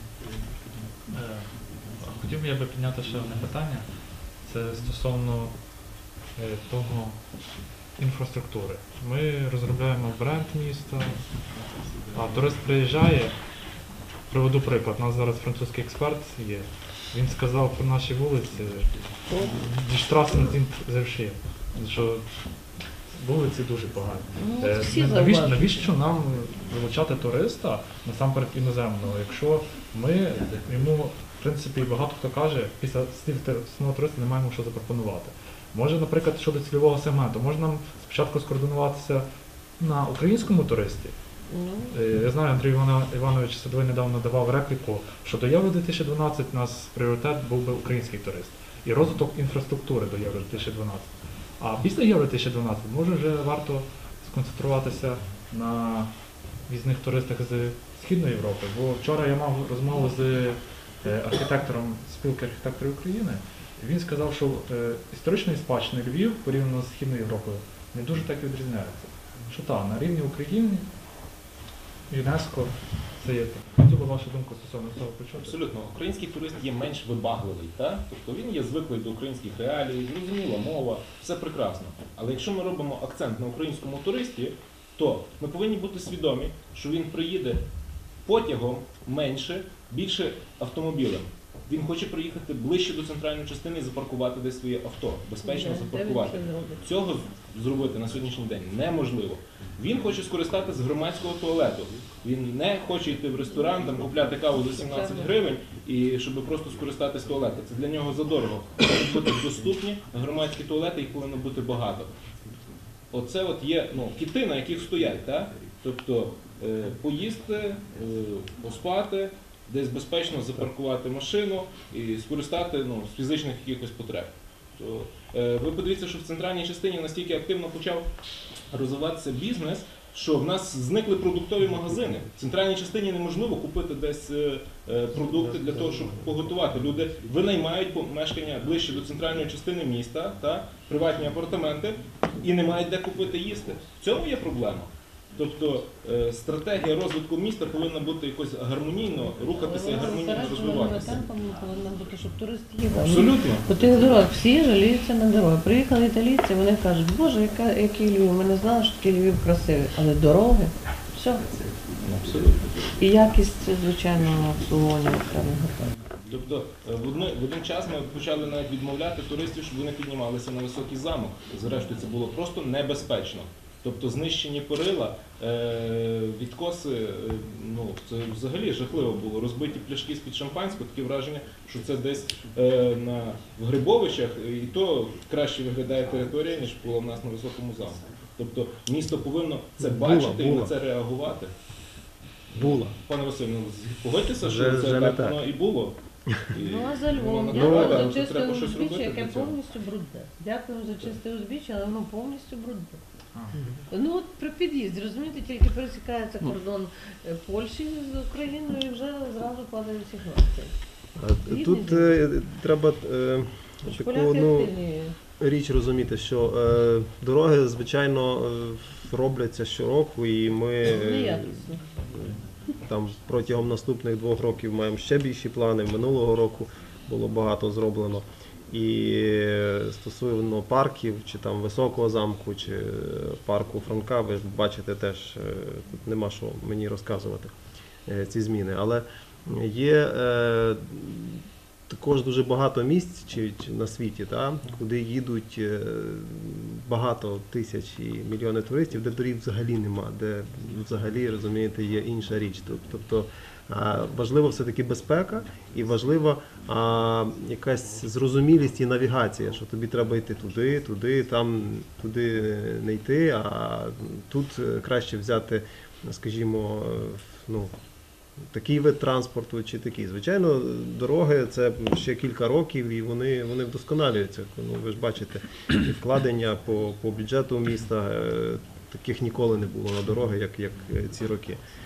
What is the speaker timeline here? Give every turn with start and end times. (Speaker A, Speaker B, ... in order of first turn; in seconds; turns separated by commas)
Speaker A: 1.1-11.5, Speaker A: 12.1-13.4, Speaker A: 14.3-39.3, Speaker B: 19.3-19.7, Speaker B: 24.4-25.9, Speaker A: 39.8-41.2, Speaker B: 41.5-42.0, Speaker A: 41.9-70.9, Speaker A: 72.1-75.6, Speaker C: 75.4-87.6, Speaker C: 88.3-112.1, Speaker B: 95.4-96.9, Speaker B: 104.8-105.3, Speaker C: 113.1-128.1, Speaker C: 128.7-151.2, Speaker B: 149.4-161.5, Speaker C: 152.9-153.7, Speaker C: 162.0-162.7, Speaker B: 163.0-165.9, Speaker C: 166.3-191.5, Speaker D: 189.8-190.7, Speaker C: 192.5-196.0, Speaker D: 192.5-192.9, Speaker D: 194.4-195.4, Speaker C: 196.5-199.6, Speaker B: 196.6-203.0, Speaker D: 197.5-198.0, Speaker B: 203.9-210.7, Speaker D: 211.2-214.7, Speaker B: 211.5-212.2, Speaker B: 213.9-215.2, Speaker D: 215.4-221.6, Speaker B: 220.8-221.8, Speaker D: 222.2-237.5, Speaker D: 238.1-267.7, Speaker D: 268.5-281.6